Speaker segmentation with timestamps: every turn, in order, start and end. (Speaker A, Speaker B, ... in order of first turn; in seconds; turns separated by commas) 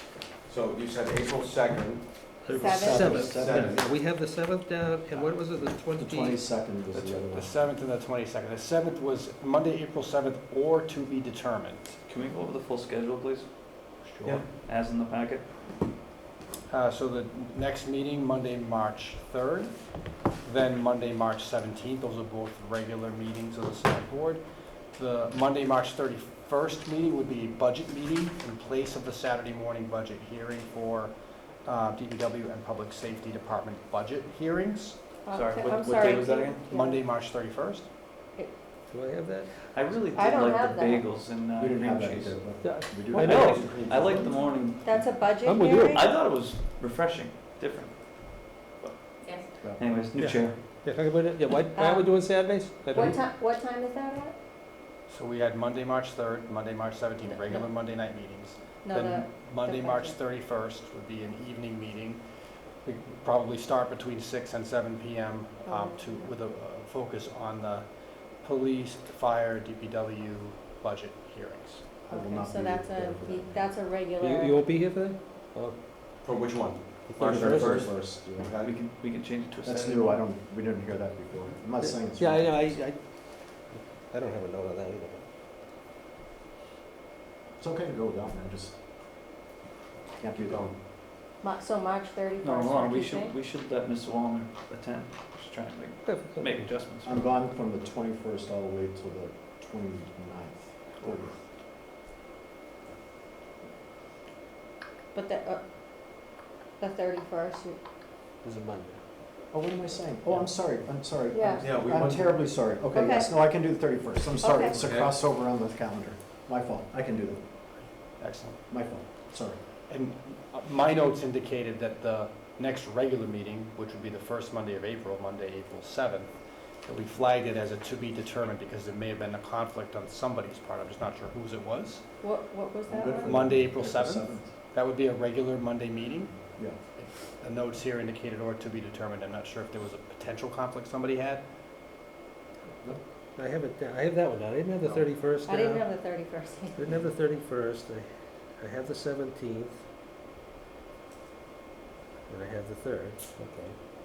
Speaker A: 0.5-3.9, Speaker B: 2.5-6.4, Speaker C: 2.6-2.9, Speaker D: 2.7-3.8, Speaker D: 5.9-7.5, Speaker E: 6.9-12.0, Speaker F: 12.1-15.5, Speaker D: 14.0-14.4, Speaker E: 16.7-35.2, Speaker C: 35.3-36.9, Speaker F: 35.3-36.6, Speaker E: 36.6-37.9, Speaker B: 38.9-39.5, Speaker F: 39.7-45.3, Speaker C: 40.1-41.0, Speaker D: 41.6-44.3, Speaker B: 42.6-43.7, Speaker C: 44.8-46.0, Speaker B: 45.4-46.0, Speaker F: 45.9-50.6, Speaker D: 49.6-49.9, Speaker B: 50.2-53.2, Speaker C: 51.8-52.0, Speaker C: 53.1-54.4, Speaker E: 55.1-72.0, Speaker C: 58.9-60.0, Speaker D: 72.0-73.7, Speaker C: 72.1-74.6, Speaker B: 74.2-75.8, Speaker A: 76.2-78.8, Speaker B: 77.1-77.9, Speaker D: 77.2-78.5, Speaker F: 78.1-80.2, Speaker D: 79.6-82.8, Speaker B: 81.8-85.3, Speaker D: 87.6-88.8, Speaker D: 90.2-90.8, Speaker A: 90.4-90.7, Speaker C: 91.4-93.3, Speaker F: 92.4-97.2, Speaker B: 96.0-96.8, Speaker D: 97.0-101.4, Speaker C: 105.1-105.6, Speaker C: 106.8-107.8, Speaker B: 108.4-109.0, Speaker D: 109.5-117.5, Speaker C: 111.3-111.6, Speaker A: 111.6-112.4, Speaker C: 112.9-113.2, Speaker C: 114.4-114.7, Speaker A: 114.7-115.1, Speaker E: 117.8-118.7, Speaker D: 118.7-119.6, Speaker E: 119.9-132.2, Speaker C: 132.2-133.3, Speaker D: 132.9-134.5, Speaker E: 133.2-141.4, Speaker B: 143.4-145.9, Speaker C: 145.5-146.8, Speaker B: 146.8-149.8, Speaker B: 152.3-153.8